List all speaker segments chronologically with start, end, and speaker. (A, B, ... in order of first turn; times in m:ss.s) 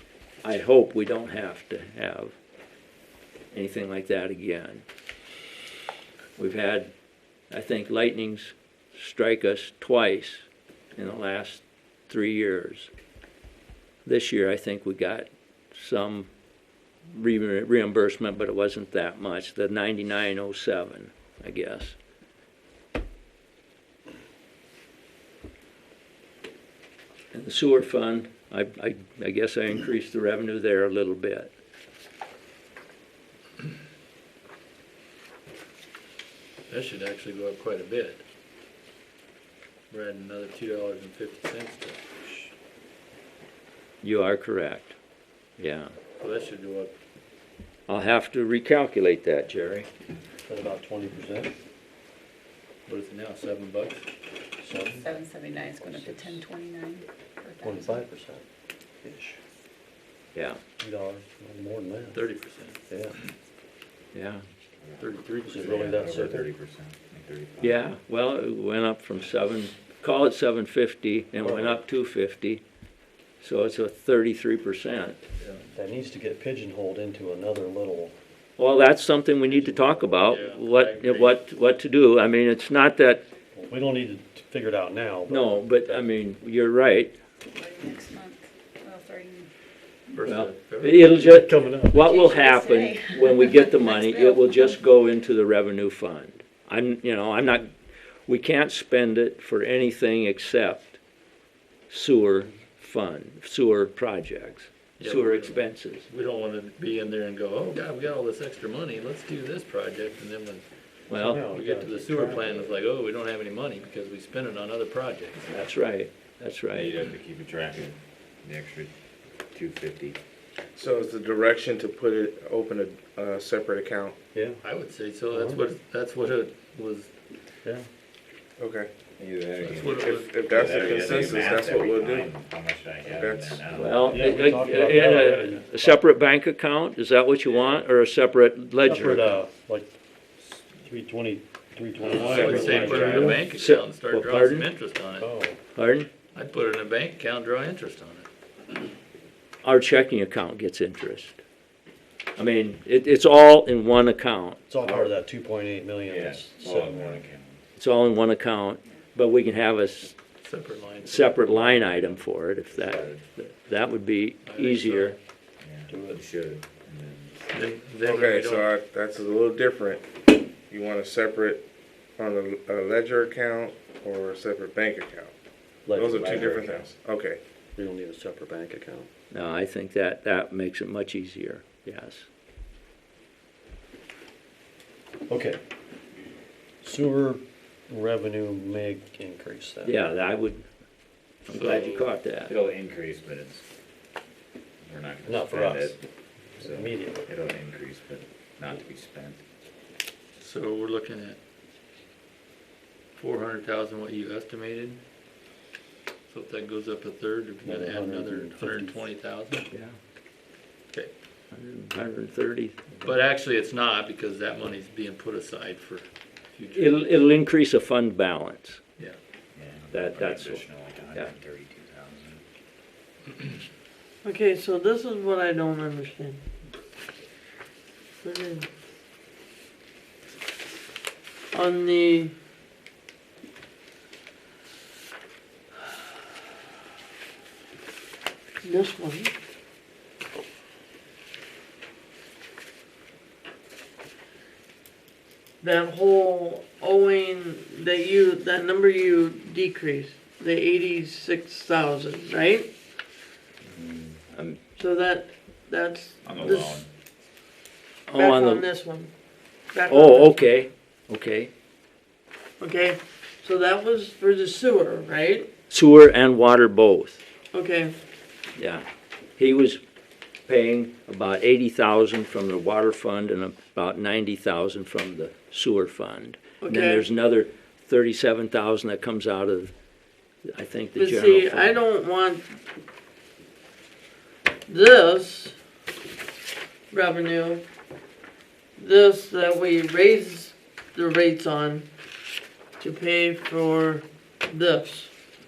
0:00.4-0:02.3 A
0:03.5-0:04.8 A
0:06.4-0:06.9 A
0:07.5-0:10.4 A
0:11.0-0:12.9 A
0:14.0-0:16.3 A
0:17.1-0:22.0 A
0:27.3-0:31.5 A
0:36.7-0:38.2 B
0:39.9-0:42.5 B
0:44.0-0:45.0 A
0:45.6-0:45.9 A
0:46.2-0:46.9 B
0:47.9-0:49.9 A
0:50.4-0:51.5 C
0:52.8-0:54.0 B
0:54.6-0:55.1 C
0:55.0-0:58.0 D
0:55.8-0:56.4 C
0:57.6-0:58.4 C
0:59.0-0:59.4 C
1:00.3-1:00.6 A
1:00.8-1:02.2 C
1:02.1-1:02.8 B
1:02.9-1:03.2 C
1:04.1-1:04.4 A
1:04.8-1:07.8 E
1:05.0-1:05.8 B
1:05.4-1:06.5 C
1:07.6-1:12.6 A
1:11.4-1:11.8 C
1:13.4-1:15.2 A
1:15.7-1:18.1 C
1:18.6-1:23.2 A
1:19.5-1:21.4 B
1:23.5-1:26.1 C
1:25.3-1:27.1 A
1:27.5-1:29.5 D
1:30.1-1:31.1 B
1:30.2-1:37.7 A
1:31.1-1:32.1 C
1:32.1-1:33.0 D
1:34.0-1:34.6 D
1:38.2-1:41.0 A
1:41.9-1:46.0 A
1:45.0-1:50.6 B
1:51.1-1:51.4 A
1:51.1-1:52.7 C
1:51.3-1:55.6 B
1:55.4-1:57.0 A
1:56.7-1:58.9 E
1:59.5-2:00.2 E
2:00.7-2:04.2 F
2:04.3-2:04.6 C
2:04.6-2:07.1 B
2:05.3-2:05.6 C
2:08.6-2:08.9 F
2:09.2-2:14.6 E
2:09.6-2:10.8 B
2:09.8-2:12.3 F
2:13.0-2:13.6 F
2:13.7-2:19.4 A
2:14.1-2:16.0 C
2:18.8-2:19.9 C
2:20.8-2:23.4 C
2:22.0-2:25.3 B
2:22.1-2:23.4 F
2:22.4-2:24.7 A
2:25.2-2:25.6 C
2:25.7-2:26.1 A
2:26.3-2:28.3 B
2:29.6-2:31.4 A
2:32.4-2:35.0 A
2:34.7-2:37.2 C
2:36.0-2:37.6 E
2:37.8-2:40.2 A
2:40.4-2:41.8 B
2:41.0-2:45.1 A
2:41.8-2:43.2 E
2:44.4-2:45.2 B
2:45.6-2:47.5 E
2:45.9-2:46.2 C
2:47.5-2:48.7 B
2:48.0-2:50.0 F
2:50.7-2:51.6 F
2:52.2-2:55.3 F
2:55.8-2:56.6 C
2:55.9-2:57.4 F
2:56.1-2:56.9 E
2:57.8-2:59.1 C
2:59.3-3:02.3 A
3:05.3-3:05.6 C
3:06.8-3:10.0 C
3:09.8-3:10.6 A
3:11.4-3:12.5 A
3:11.5-3:12.0 B
3:12.5-3:13.6 E
3:14.8-3:16.0 E
3:15.2-3:16.0 C
3:16.6-3:17.3 C
3:16.6-3:19.4 E
3:20.4-3:21.4 B
3:23.2-3:25.0 B
3:26.3-3:29.7 B
3:27.6-3:29.0 C
3:29.7-3:30.0 A
3:31.5-3:33.1 A
3:33.0-3:37.1 B
3:36.7-3:38.8 A
3:39.5-3:42.4 E
3:39.9-3:41.3 A
3:44.2-3:46.4 G
3:48.2-3:48.7 G
3:51.5-3:52.3 G
3:58.6-3:59.3 G
4:05.6-4:12.7 G
4:13.6-4:14.2 E
4:14.8-4:16.8 G
4:16.2-4:16.9 E
4:18.1-4:18.6 A
4:18.1-4:19.1 G
4:19.7-4:20.4 G
4:19.9-4:21.5 A
4:22.6-4:25.5 G
4:25.7-4:27.2 A
4:27.5-4:27.9 G
4:28.6-4:28.8 A
4:29.4-4:29.8 A
4:30.5-4:39.7 A
4:36.6-4:37.0 G
4:40.5-4:41.8 A
4:41.0-4:42.5 G
4:44.7-4:45.6 G
4:46.9-4:47.6 G
4:48.8-4:51.9 G
4:52.8-4:55.1 G